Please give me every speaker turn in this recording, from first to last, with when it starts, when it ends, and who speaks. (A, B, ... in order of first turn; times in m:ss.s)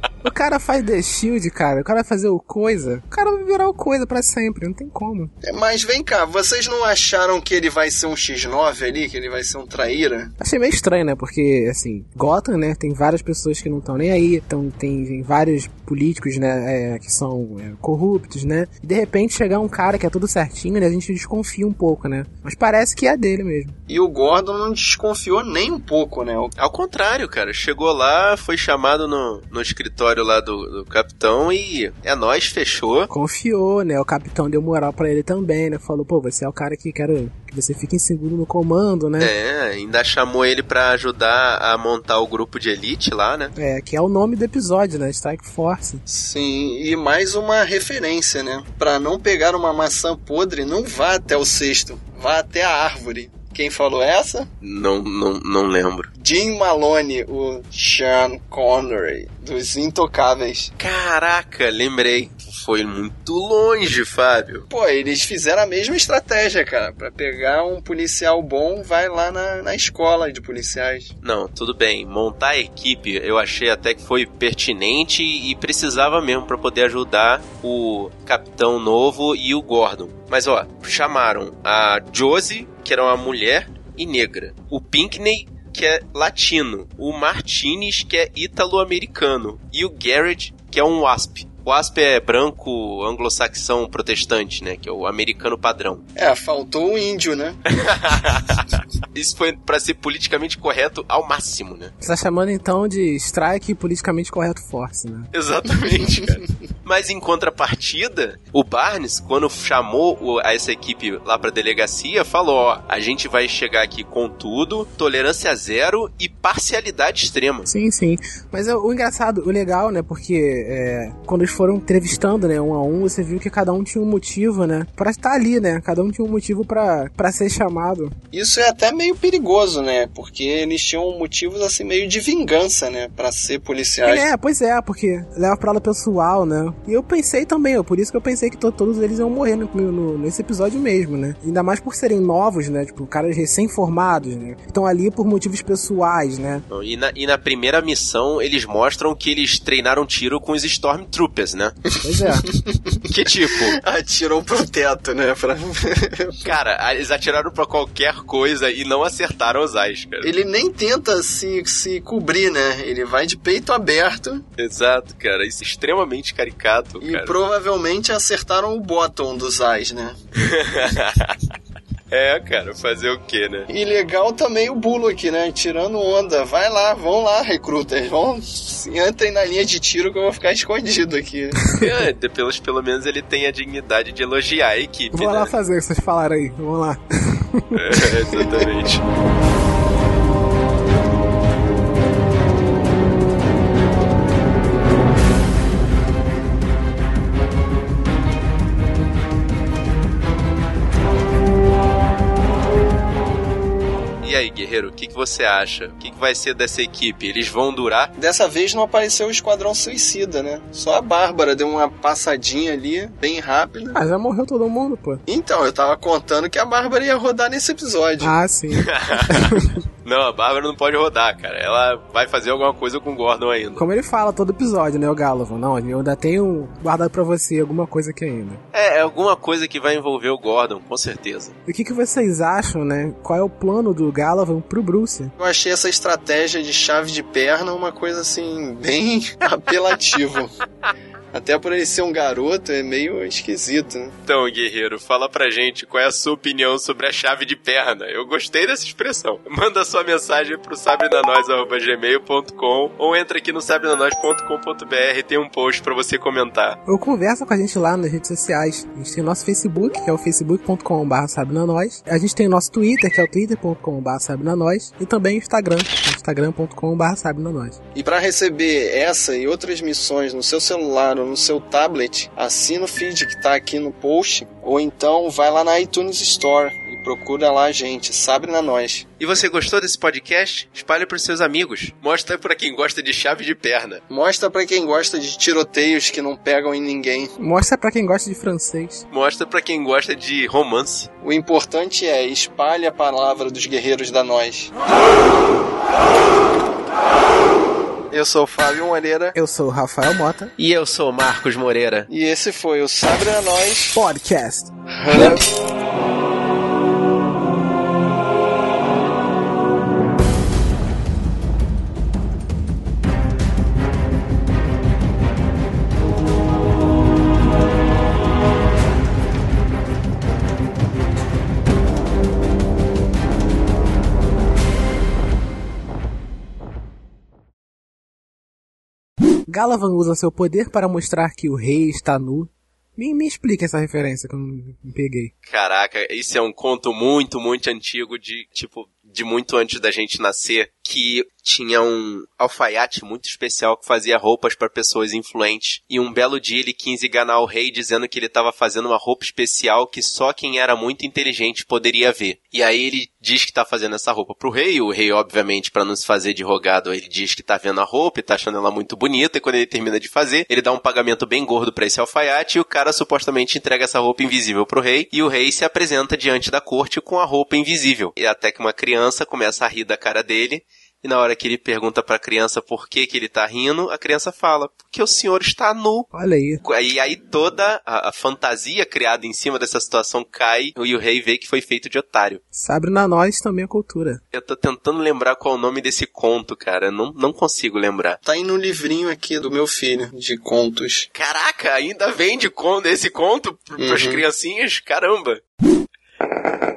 0:00.2-0:05.3 A
0:05.4-0:10.3 B
0:10.4-0:23.8 A
0:23.9-0:26.6 B
0:26.6-0:33.1 C
0:33.1-0:39.3 A
0:39.2-0:43.5 C
0:43.6-0:46.0 A
0:46.1-0:54.5 B
0:54.6-0:56.1 C
0:56.2-1:00.7 B
1:00.8-1:04.7 C
1:04.7-1:11.1 B
1:11.2-1:36.0 C
1:36.2-1:37.6 B
1:37.8-1:41.9 C
1:42.0-1:45.3 A
1:45.3-1:57.7 C
1:57.7-2:08.2 A
2:08.3-2:14.3 B
2:14.0-2:26.6 A
2:26.7-2:31.8 C
2:32.0-2:32.5 A
2:32.2-2:33.0 B
2:33.1-2:33.8 C
2:33.7-2:36.5 B
2:36.4-2:40.3 C
2:40.2-2:44.4 B
2:44.6-2:47.4 C
2:47.0-2:50.2 B
2:50.4-2:51.4 C
2:52.1-2:53.7 C
2:53.7-3:01.6 B
3:01.6-3:01.8 A
3:01.8-3:05.5 C
3:05.1-3:07.6 A
3:07.8-3:09.0 C
3:24.2-3:28.1 C
3:28.2-3:34.0 B
3:33.9-3:35.2 A
3:35.3-3:38.4 B
3:38.2-3:39.8 A
3:38.8-3:39.5 C
3:40.0-3:43.8 C
3:43.8-3:48.6 A
3:48.7-3:51.6 C
3:51.7-3:55.3 A
3:55.4-4:00.5 B
4:01.3-4:04.1 B
4:04.3-4:16.8 C
4:16.9-4:27.8 A
4:28.0-4:39.1 B
4:39.2-4:44.0 C
4:44.1-4:47.3 B
4:47.4-4:49.0 A
4:49.1-4:51.1 C
4:51.2-4:54.7 B
4:58.1-4:59.4 B
4:59.4-5:00.5 A
5:00.6-5:02.1 C
5:02.1-5:04.0 B
5:03.9-5:05.4 A
5:04.9-5:05.4 B
5:29.5-5:35.3 A
5:35.5-6:16.1 C
6:16.1-6:16.6 A
6:16.6-6:22.4 C
6:22.5-6:24.2 A
6:24.3-6:28.2 C
6:28.2-6:31.1 B
6:31.1-6:35.4 C
6:33.8-6:34.2 B